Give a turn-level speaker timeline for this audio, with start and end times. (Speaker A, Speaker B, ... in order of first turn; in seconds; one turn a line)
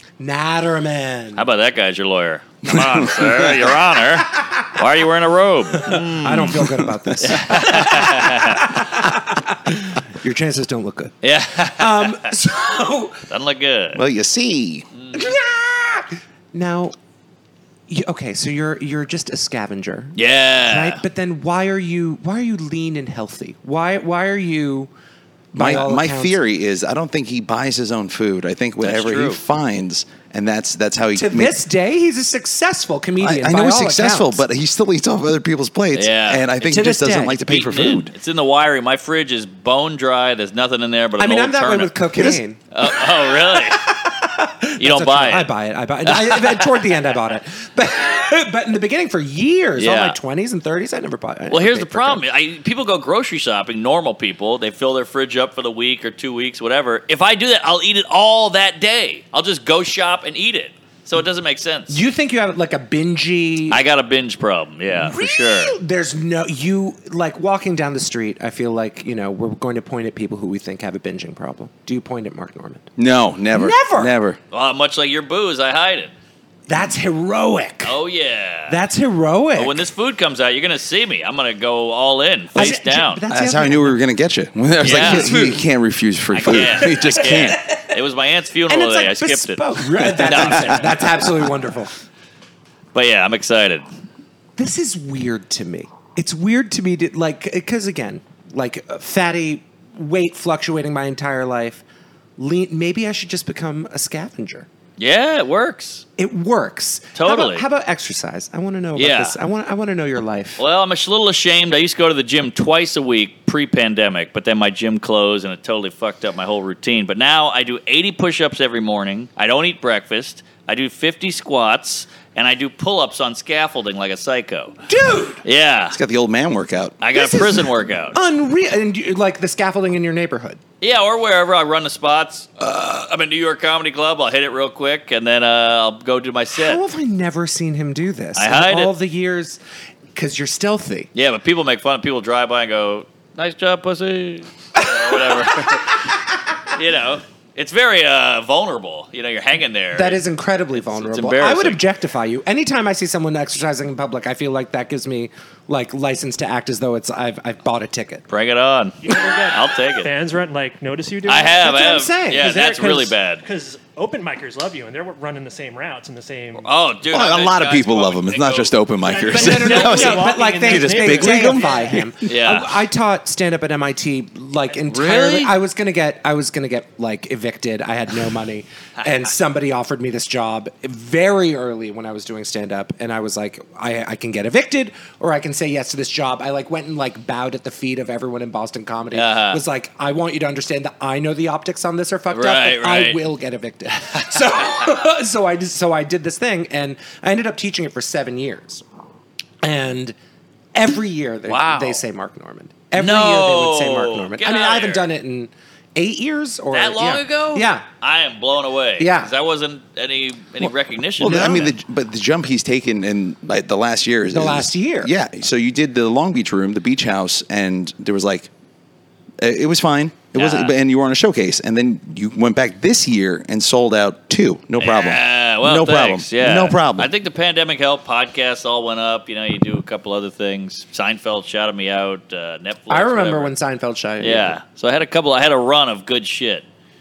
Speaker A: 0.2-1.4
Speaker B: 1.4-6.6
Speaker C: 2.7-3.5
Speaker A: 4.2-4.8
Speaker A: 5.7-11.2
Speaker C: 6.3-7.1
Speaker B: 7.2-8.7
Speaker B: 11.2-12.2
Speaker A: 11.8-13.2
Speaker B: 13.3-14.0
Speaker C: 13.9-14.9
Speaker B: 14.9-15.3
Speaker A: 15.1-16.9
Speaker A: 17.9-24.9
Speaker B: 20.1-21.0
Speaker A: 25.5-26.4
Speaker C: 25.6-31.6
Speaker B: 28.8-29.4
Speaker A: 31.1-34.4
Speaker C: 33.2-38.1
Speaker B: 35.9-36.5
Speaker A: 36.6-37.4
Speaker B: 37.3-42.0
Speaker A: 41.2-52.2
Speaker B: 42.7-43.8
Speaker B: 44.8-45.5
Speaker B: 46.1-46.8
Speaker B: 49.8-50.2
Speaker B: 51.5-62.0
Speaker A: 61.9-63.8
Speaker B: 63.7-65.8
Speaker A: 64.9-72.9
Speaker C: 73.0-74.4
Speaker A: 73.5-74.1
Speaker B: 74.5-76.1
Speaker A: 76.7-78.0
Speaker B: 77.8-78.8
Speaker A: 78.7-79.8
Speaker B: 79.5-83.2
Speaker A: 82.5-84.0
Speaker C: 83.3-87.6
Speaker B: 84.8-85.5
Speaker A: 84.9-85.6
Speaker B: 86.3-91.1
Speaker A: 86.5-87.9
Speaker A: 88.7-91.9
Speaker C: 90.3-90.5
Speaker B: 92.9-93.8
Speaker A: 94.6-101.8
Speaker A: 102.4-104.7
Speaker B: 105.0-106.0
Speaker A: 106.2-110.6
Speaker B: 107.2-107.7
Speaker B: 109.0-109.4
Speaker B: 110.6-124.8
Speaker A: 124.9-125.4
Speaker B: 125.4-126.0
Speaker C: 125.9-127.0
Speaker B: 127.0-128.2
Speaker A: 127.1-130.6
Speaker B: 130.8-136.8
Speaker A: 136.6-139.6
Speaker B: 138.4-138.9
Speaker A: 140.2-141.1
Speaker B: 141.2-146.0
Speaker A: 144.8-145.8
Speaker B: 146.7-150.2
Speaker A: 149.9-158.3
Speaker B: 150.8-151.8
Speaker B: 158.3-160.1
Speaker D: 159.0-161.7
Speaker B: 161.3-163.4
Speaker A: 161.6-163.0
Speaker D: 162.5-166.7
Speaker B: 166.6-168.8
Speaker C: 167.1-172.1
Speaker D: 169.0-172.0
Speaker A: 169.3-198.8
Speaker B: 172.2-172.8
Speaker B: 174.9-175.5
Speaker B: 189.1-189.6
Speaker B: 192.3-193.2
Speaker A: 199.6-200.2
Speaker A: 200.7-207.8
Speaker B: 201.5-202.0
Speaker B: 202.9-205.1
Speaker B: 206.7-211.7
Speaker A: 209.0-209.3
Speaker C: 211.2-218.5
Speaker A: 211.2-211.7
Speaker A: 214.3-215.1
Speaker C: 219.4-227.1
Speaker B: 220.3-220.8
Speaker B: 224.8-233.5
Speaker A: 232.9-234.6
Speaker B: 234.2-236.7